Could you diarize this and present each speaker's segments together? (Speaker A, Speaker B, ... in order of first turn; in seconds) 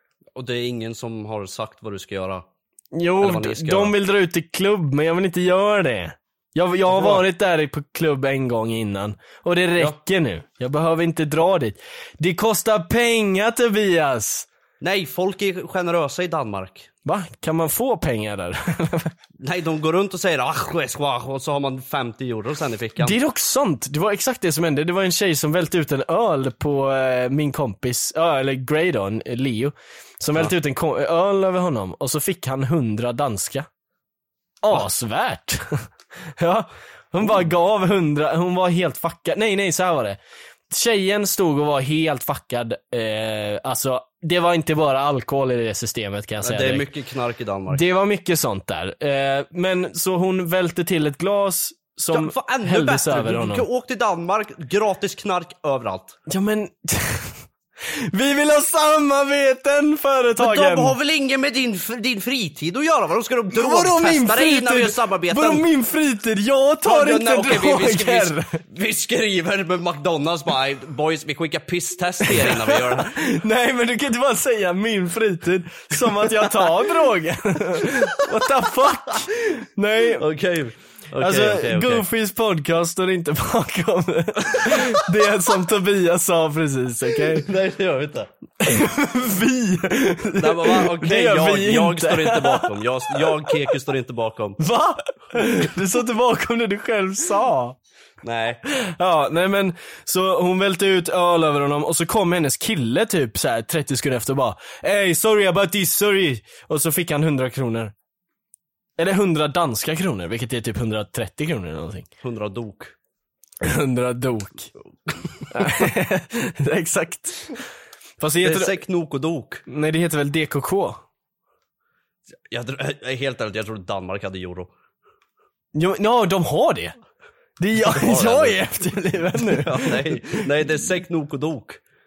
Speaker A: 0.3-2.4, 3.2-3.9, 6.9-7.2, 14.8-16.9, 19.4-23.2, 46.4-47.8, 52.1-56.2, 60.4-65.7, 66.8-73.2, 76.4-76.7, 77.8-78.2, 80.1-82.0, 84.5-84.8, 87.3-88.3, 90.4-94.6, 98.2-98.6, 112.2-112.9, 118.4-119.6, 122.5-124.7, 127.8-128.6, 129.4-131.8
Speaker B: 2.9-14.5, 17.0-19.1, 23.0-33.7, 34.6-40.2, 40.7-46.9, 47.7-53.6, 56.3-61.0, 63.5-68.6, 72.2-80.2, 81.2-87.5, 88.6-93.6, 94.6-97.8, 98.7-107.9, 109.0-112.1, 113.6-114.7, 115.5-117.6, 118.2-118.7, 119.7-121.0, 125.7-126.9, 127.6-130.4